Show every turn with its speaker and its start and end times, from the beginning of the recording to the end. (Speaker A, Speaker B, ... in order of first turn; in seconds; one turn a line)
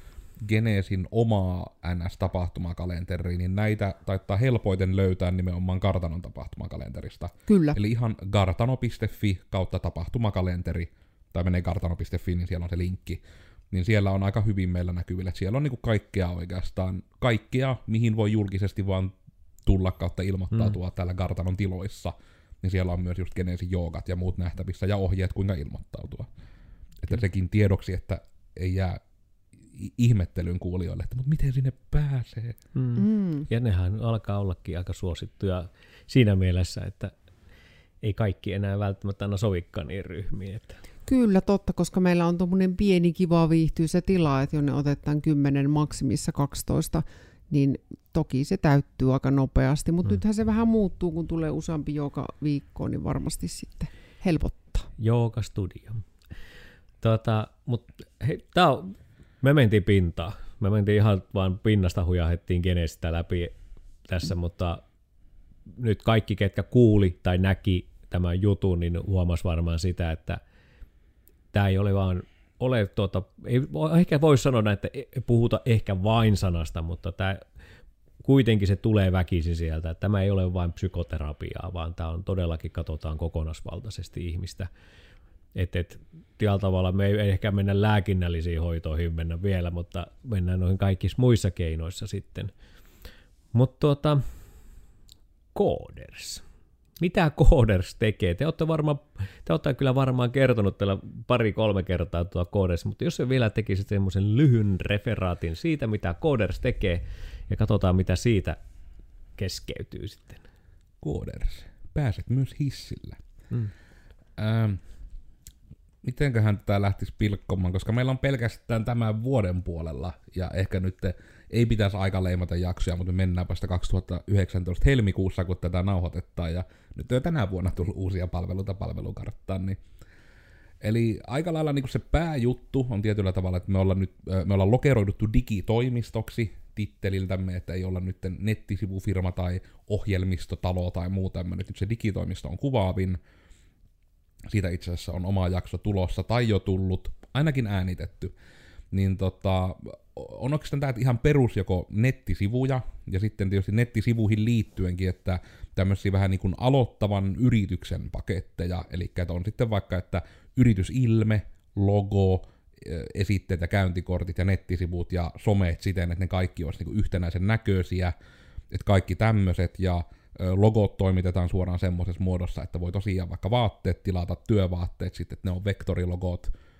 Speaker A: 0.4-19.1
Speaker B: 7.5-7.8
Speaker A: 19.6-26.3
Speaker A: 27.0-29.0
Speaker A: 29.7-32.6
Speaker C: 32.7-37.1
Speaker B: 33.0-33.5
Speaker C: 38.0-40.8
Speaker B: 41.1-54.9
Speaker C: 55.0-56.0
Speaker C: 57.0-63.5
Speaker C: 64.1-64.8
Speaker C: 65.7-70.4
Speaker C: 71.5-77.4
Speaker C: 78.2-84.7
Speaker C: 85.5-92.5
Speaker C: 93.5-94.2
Speaker C: 95.5-96.4
Speaker C: 97.0-108.6
Speaker C: 109.4-110.4
Speaker A: 111.0-113.2
Speaker A: 114.4-114.8
Speaker A: 116.0-129.8
Speaker A: 130.8-143.2
Speaker A: 144.5-148.3
Speaker A: 148.9-168.1
Speaker A: 168.7-176.5